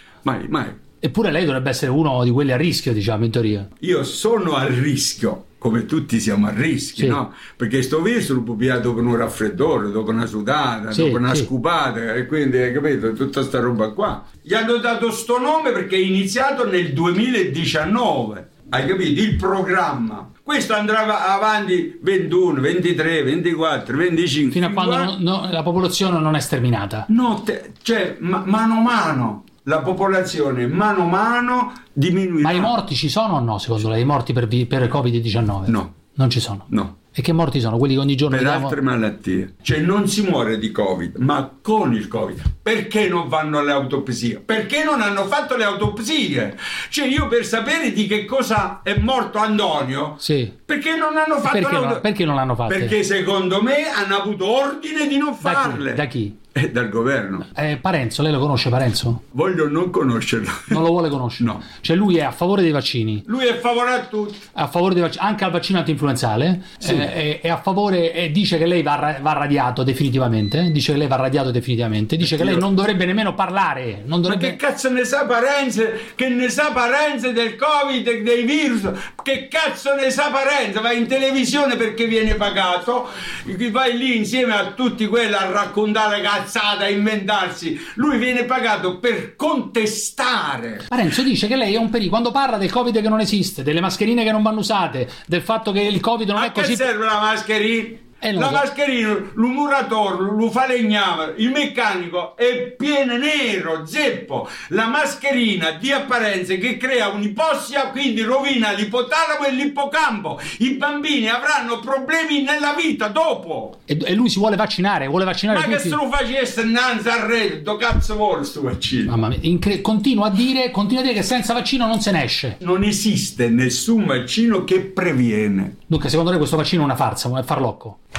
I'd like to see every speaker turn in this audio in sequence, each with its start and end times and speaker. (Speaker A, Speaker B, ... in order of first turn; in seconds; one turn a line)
Speaker A: 0.2-0.8
Speaker B: 1.0-3.7
Speaker A: 3.8-25.1
Speaker B: 10.9-11.5
Speaker B: 24.5-27.1
Speaker A: 27.1-32.7
Speaker B: 32.4-38.8
Speaker A: 35.7-36.0
Speaker A: 36.7-37.0
Speaker A: 38.3-52.1
Speaker B: 50.2-50.5
Speaker B: 51.4-53.0
Speaker A: 52.7-57.5
Speaker B: 55.4-56.4
Speaker B: 57.5-59.2
Speaker A: 59.3-60.8
Speaker B: 60.7-63.2
Speaker A: 63.2-64.4
Speaker B: 64.5-74.6
Speaker A: 66.8-67.1
Speaker A: 72.2-72.6
Speaker A: 74.2-90.9
Speaker B: 90.9-96.8
Speaker A: 96.3-113.8
Speaker B: 98.2-98.6
Speaker B: 113.9-116.0
Speaker A: 115.5-119.1
Speaker B: 119.1-122.6
Speaker A: 122.6-125.8
Speaker B: 125.9-128.0